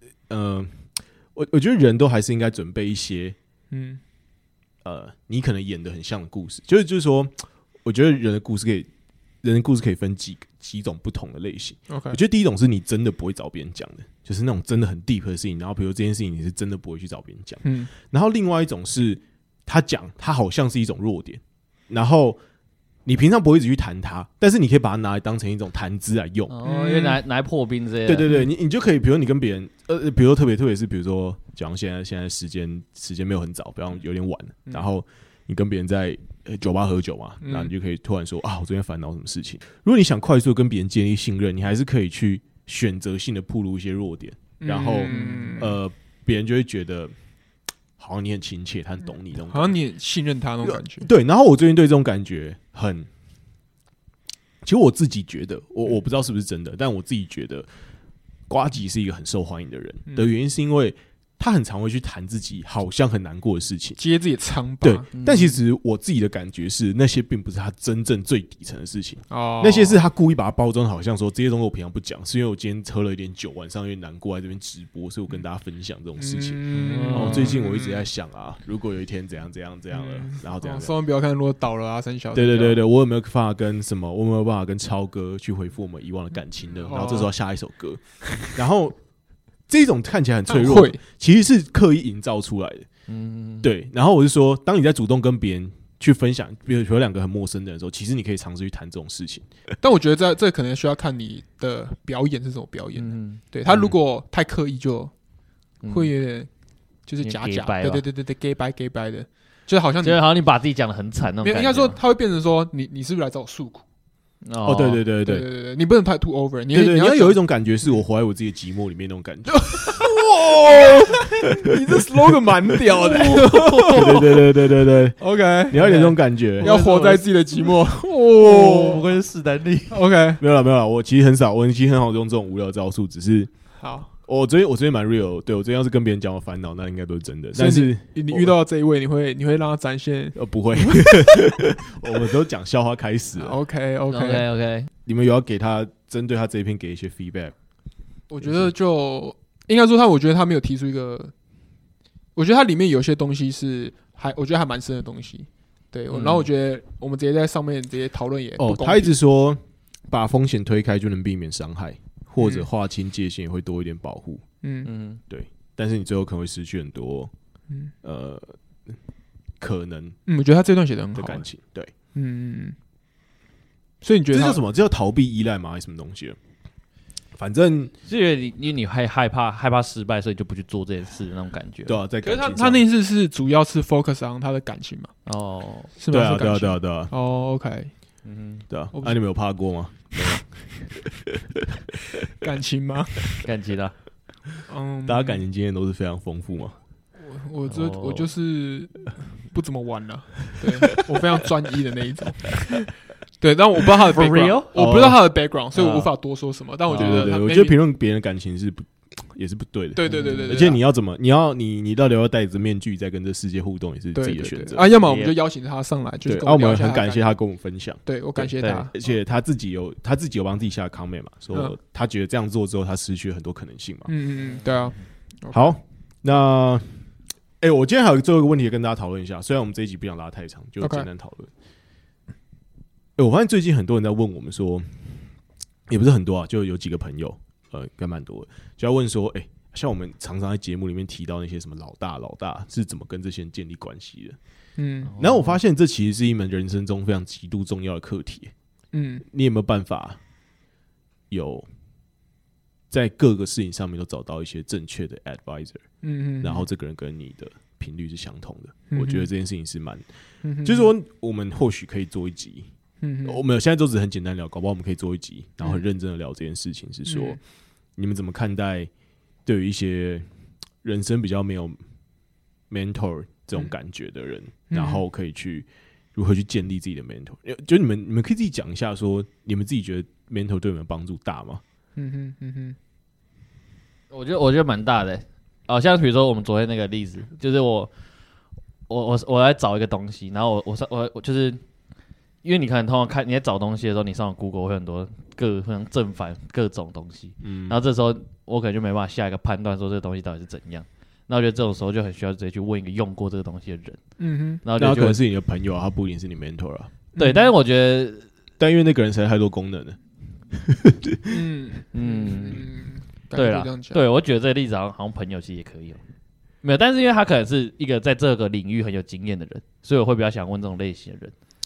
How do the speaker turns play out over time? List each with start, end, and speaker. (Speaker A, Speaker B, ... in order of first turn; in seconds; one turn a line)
Speaker A: 0.3-0.7
Speaker A: 1.3-3.4
Speaker B: 3.7-4.0
Speaker A: 4.8-8.9
Speaker A: 9.4-22.4
Speaker B: 11.9-12.2
Speaker B: 17.6-17.9
Speaker A: 23.0-26.5
Speaker C: 26.5-28.3
Speaker B: 26.6-27.2
Speaker A: 28.1-47.1
Speaker B: 37.4-37.7
Speaker B: 44.6-45.8
Speaker C: 45.0-45.7
Speaker A: 48.0-49.8
Speaker B: 49.4-51.1
Speaker A: 50.6-53.1
Speaker A: 54.6-57.7
Speaker A: 58.5-64.0
Speaker B: 60.1-60.3
Speaker B: 64.0-65.1
Speaker A: 64.8-80.9
Speaker C: 65.1-65.5
Speaker B: 69.3-70.0
Speaker B: 76.2-78.1
Speaker C: 76.7-77.5
Speaker B: 79.9-82.8
Speaker A: 82.3-89.0
Speaker B: 86.8-87.3
Speaker A: 89.7-92.9
Speaker B: 90.5-91.0
Speaker C: 93.1-93.7
Speaker A: 93.6-99.5
Speaker B: 99.8-105.1
Speaker C: 102.9-103.4
Speaker C: 105.8-106.1
Speaker B: 105.9-106.5
Speaker B: 107.1-110.2
Speaker C: 107.2-108.0
Speaker C: 110.0-112.0
Speaker B: 111.4-113.8
Speaker C: 114.4-115.0
Speaker A: 114.6-115.5
Speaker B: 115.2-117.4
Speaker A: 116.7-120.0
Speaker B: 119.5-124.5
Speaker C: 123.0-124.2
Speaker A: 123.9-126.7
Speaker B: 125.2-129.1
Speaker C: 125.8-127.3
Speaker C: 128.4-130.0
Speaker B: 129.9-130.4
Speaker A: 130.4-133.5
Speaker B: 133.8-134.1
Speaker A: 134.2-138.5
Speaker B: 137.5-141.4
Speaker A: 140.3-143.6
Speaker B: 143.4-144.5
Speaker C: 144.1-144.9
Speaker A: 145.1-147.5
Speaker B: 148.3-151.3
Speaker A: 148.4-148.7
Speaker B: 152.3-159.1
Speaker C: 156.1-156.5
Speaker A: 158.6-164.4
Speaker B: 162.4-162.7
Speaker B: 164.6-164.9
Speaker C: 164.8-165.2
Speaker A: 165.3-167.3
Speaker A: 168.0-168.9
Speaker A: 169.6-170.2
Speaker B: 170.2-171.5
Speaker A: 171.1-171.9
Speaker B: 172.1-172.8
Speaker B: 174.0-174.6
Speaker A: 174.3-176.4
Speaker A: 177.3-177.9
Speaker C: 178.1-182.0
Speaker A: 181.8-182.8
Speaker B: 182.2-185.1
Speaker C: 185.2-185.9
Speaker B: 186.0-187.9
Speaker A: 186.1-187.1
Speaker C: 188.2-188.6
Speaker A: 188.7-191.6
Speaker B: 188.9-189.2
Speaker B: 192.4-193.4
Speaker C: 193.4-193.9
Speaker B: 194.7-195.4
Speaker A: 195.1-196.8
Speaker B: 197.2-202.9
Speaker C: 197.7-198.3
Speaker A: 200.7-201.2
Speaker B: 203.4-207.8
Speaker C: 204.1-204.7
Speaker A: 204.8-205.2
Speaker C: 205.7-206.1
Speaker C: 206.9-207.3
Speaker A: 206.9-214.9
Speaker B: 209.9-210.8
Speaker C: 210.1-210.6
Speaker B: 214.1-217.2
Speaker C: 215.0-215.3
Speaker A: 216.2-224.1
Speaker B: 218.1-218.9
Speaker B: 224.1-225.8
Speaker C: 224.4-224.9
Speaker A: 225.5-227.1
Speaker A: 227.6-231.5
Speaker B: 230.8-231.1
Speaker A: 233.2-235.3
Speaker A: 235.9-244.4
Speaker B: 244.8-245.1
Speaker C: 245.1-245.6
Speaker A: 245.2-248.5
Speaker B: 248.9-249.2
Speaker A: 249.3-250.2
Speaker A: 251.3-251.7
Speaker A: 252.9-255.8
Speaker B: 256.0-256.7
Speaker A: 256.4-260.0
Speaker B: 258.9-259.3
Speaker B: 260.4-260.9
Speaker A: 260.6-262.7
Speaker B: 263.0-263.4
Speaker A: 263.2-267.4
Speaker B: 267.1-267.4
Speaker A: 268.0-268.9
Speaker A: 269.5-270.3
Speaker A: 270.8-271.8
Speaker A: 272.7-281.6
Speaker B: 274.7-275.0
Speaker B: 282.0-282.8
Speaker C: 284.1-287.9
Speaker C: 288.9-291.6
Speaker C: 292.4-304.0
Speaker A: 297.4-297.8
Speaker B: 304.2-304.6
Speaker C: 304.6-305.2
Speaker A: 304.8-306.9
Speaker B: 307.1-307.5
Speaker C: 307.2-308.2
Speaker A: 308.6-310.0
Speaker A: 310.5-311.4
Speaker B: 311.3-314.0
Speaker C: 311.9-312.7
Speaker C: 313.3-316.0
Speaker C: 316.6-321.3